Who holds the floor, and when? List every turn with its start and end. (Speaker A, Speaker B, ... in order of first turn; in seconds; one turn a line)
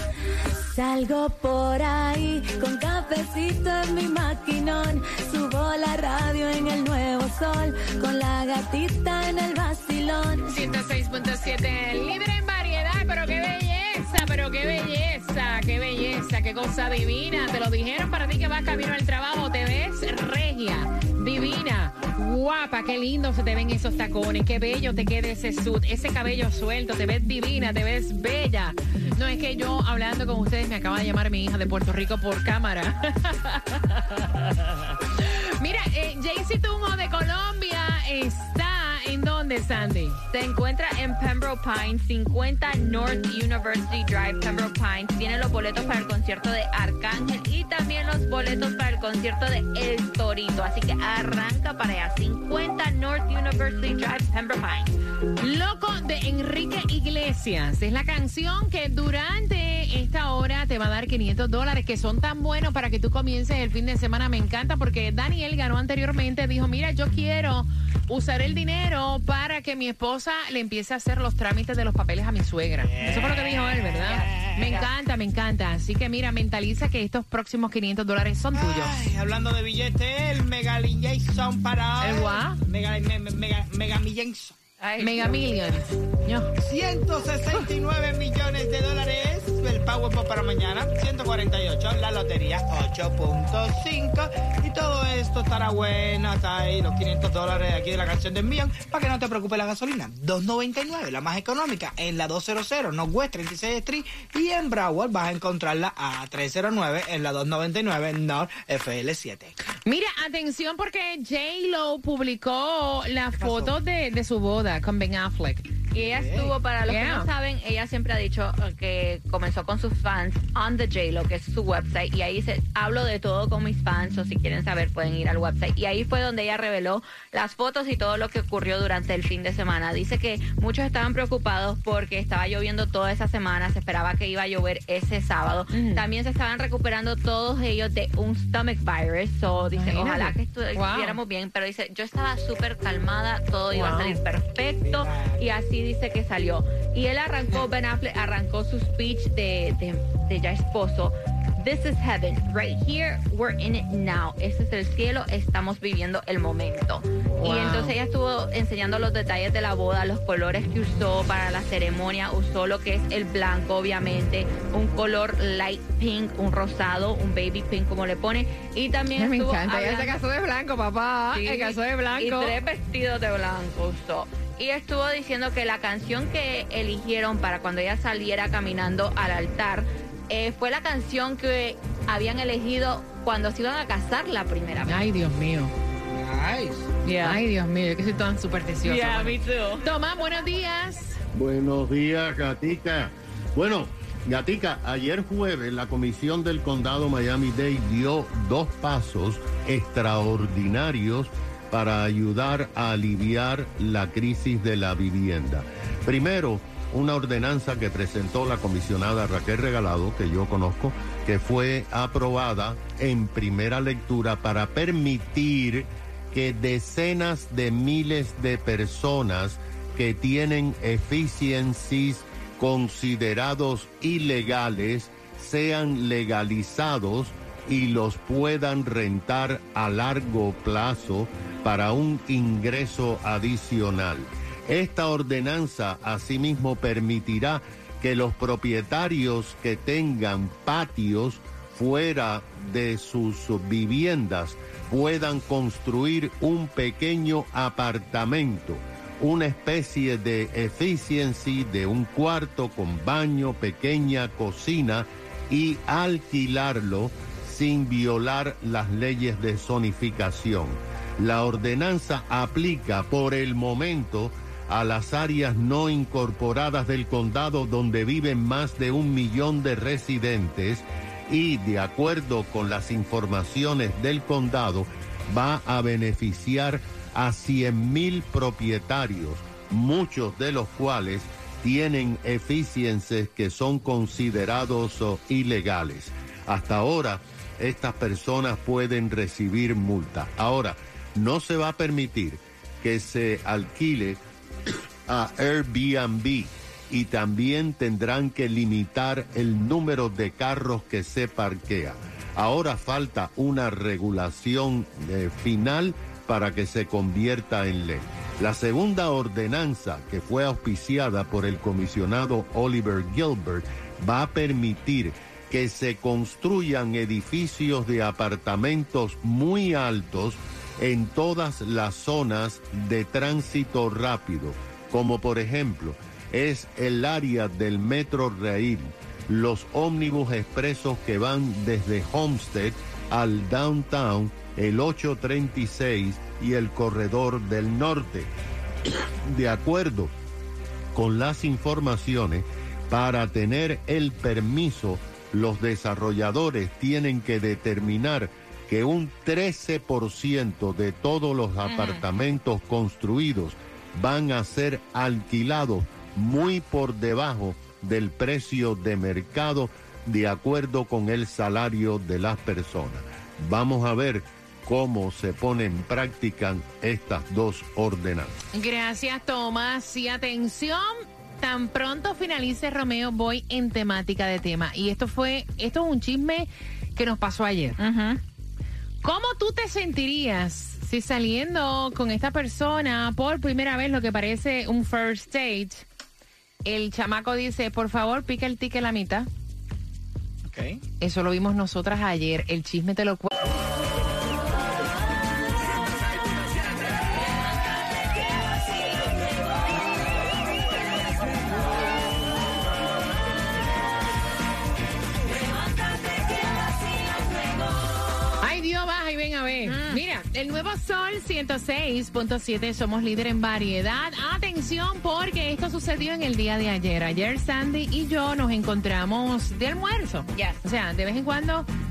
Speaker A: 0.7-10.5
Speaker B: 10.4-40.2
Speaker C: 40.3-54.9
Speaker B: 55.4-78.9
Speaker D: 72.8-74.8
Speaker D: 78.5-84.5
Speaker B: 82.0-82.6
Speaker C: 84.8-85.7
Speaker B: 85.0-86.5
Speaker D: 86.6-109.5
Speaker B: 109.8-115.7
Speaker D: 113.4-113.7
Speaker C: 115.9-170.2
Speaker D: 116.0-116.5
Speaker B: 116.9-117.3
Speaker B: 135.7-136.0
Speaker B: 139.7-141.2
Speaker B: 143.7-144.2
Speaker D: 144.8-145.4
Speaker B: 157.4-157.9
Speaker B: 169.1-172.5
Speaker C: 171.3-185.0
Speaker B: 184.8-185.7
Speaker D: 186.1-186.9
Speaker C: 187.0-187.4
Speaker B: 187.2-191.2
Speaker C: 188.8-189.8
Speaker E: 191.3-294.2
Speaker E: 295.1-338.3
Speaker E: 339.2-340.1
Speaker E: 340.9-368.3
Speaker C: 351.6-352.0
Speaker B: 368.5-377.8
Speaker C: 377.8-378.2
Speaker B: 379.0-385.9
Speaker B: 386.6-389.3
Speaker D: 390.4-390.8
Speaker B: 391.0-393.3
Speaker B: 408.4-421.7
Speaker C: 409.6-410.0
Speaker C: 420.3-420.6